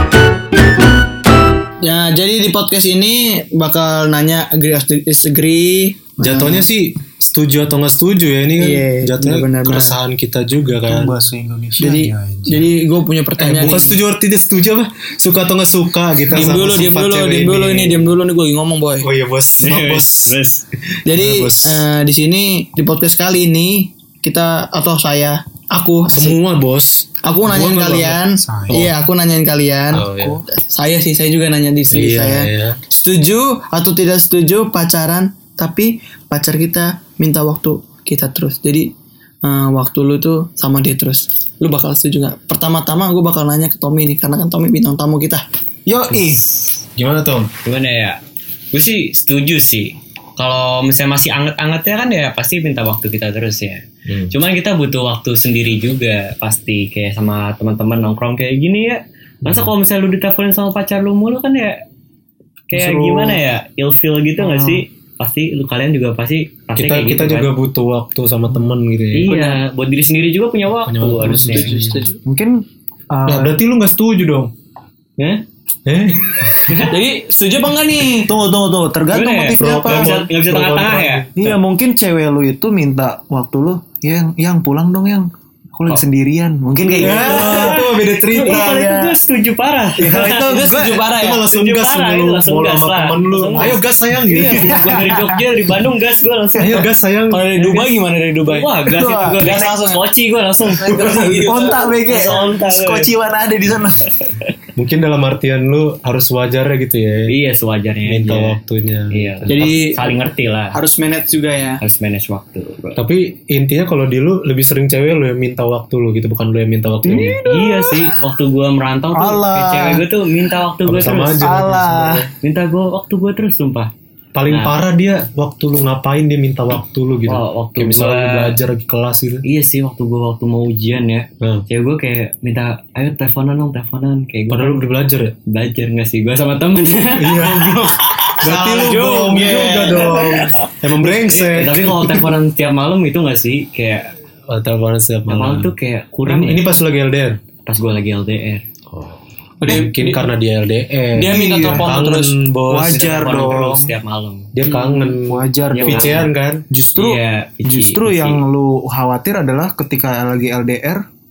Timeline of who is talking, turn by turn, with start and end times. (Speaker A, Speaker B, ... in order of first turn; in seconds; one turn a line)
Speaker A: 1.8-6.2
Speaker B: 6.2-6.7
Speaker C: 6.2-11.2
Speaker A: 8.6-10.0
Speaker B: 10.9-12.7
Speaker A: 11.8-14.0
Speaker C: 13.4-18.1
Speaker A: 16.3-19.1
Speaker C: 19.0-20.4
Speaker D: 19.6-20.6
Speaker A: 21.1-26.4
Speaker C: 21.1-21.9
Speaker C: 26.1-28.9
Speaker A: 27.2-38.9
Speaker B: 28.4-28.7
Speaker C: 29.9-30.4
Speaker C: 31.9-32.8
Speaker A: 39.4-45.4
Speaker B: 45.9-46.4
Speaker D: 46.1-46.5
Speaker C: 47.0-47.5
Speaker D: 47.6-48.2
Speaker D: 48.7-61.8
Speaker C: 54.0-54.3
Speaker C: 59.4-59.7
Speaker D: 62.7-67.5
Speaker B: 62.7-63.4
Speaker B: 64.4-64.8
Speaker C: 66.8-69.3
Speaker D: 69.1-71.7
Speaker A: 69.3-69.6
Speaker C: 70.9-72.0
Speaker A: 71.4-72.2
Speaker B: 72.2-73.5
Speaker C: 73.3-74.5
Speaker D: 75.2-75.4
Speaker C: 75.8-76.9
Speaker A: 76.9-78.3
Speaker B: 78.2-80.2
Speaker D: 79.1-81.5
Speaker C: 79.6-81.5
Speaker B: 81.3-87.8
Speaker D: 86.9-90.7
Speaker C: 87.0-89.0
Speaker B: 88.4-89.2
Speaker B: 90.0-91.1
Speaker A: 90.2-91.4
Speaker C: 91.1-94.9
Speaker D: 91.3-93.8
Speaker A: 94.2-95.2
Speaker B: 94.6-95.4
Speaker D: 94.6-96.9
Speaker C: 96.6-97.8
Speaker A: 97.3-100.0
Speaker D: 98.4-101.0
Speaker B: 98.9-99.6
Speaker A: 100.7-101.9
Speaker C: 100.9-101.4
Speaker B: 101.4-104.0
Speaker D: 102.1-103.1
Speaker D: 104.2-104.5
Speaker C: 104.8-107.3
Speaker D: 107.3-108.6
Speaker C: 108.0-109.7
Speaker D: 109.1-110.8
Speaker A: 109.5-110.1
Speaker A: 110.7-111.8
Speaker D: 111.8-113.0
Speaker C: 113.0-117.4
Speaker B: 117.0-118.0
Speaker D: 117.5-121.5
Speaker B: 119.1-120.0
Speaker C: 120.9-122.3
Speaker B: 121.4-122.3
Speaker D: 122.4-123.9
Speaker C: 124.3-129.4
Speaker D: 124.5-124.8
Speaker D: 127.3-128.6
Speaker D: 129.4-134.9
Speaker C: 131.4-131.7
Speaker C: 134.5-135.3
Speaker D: 135.5-144.1
Speaker C: 137.2-142.2
Speaker A: 138.4-140.3
Speaker C: 144.5-145.7
Speaker D: 145.3-146.6
Speaker C: 146.2-147.4
Speaker D: 147.7-148.7
Speaker A: 149.6-150.3
Speaker C: 149.7-153.4
Speaker A: 151.1-152.3
Speaker B: 151.2-151.9
Speaker B: 152.7-153.9
Speaker D: 152.9-155.1
Speaker C: 154.5-156.6
Speaker B: 155.2-161.0
Speaker D: 155.7-156.3
Speaker D: 156.9-158.4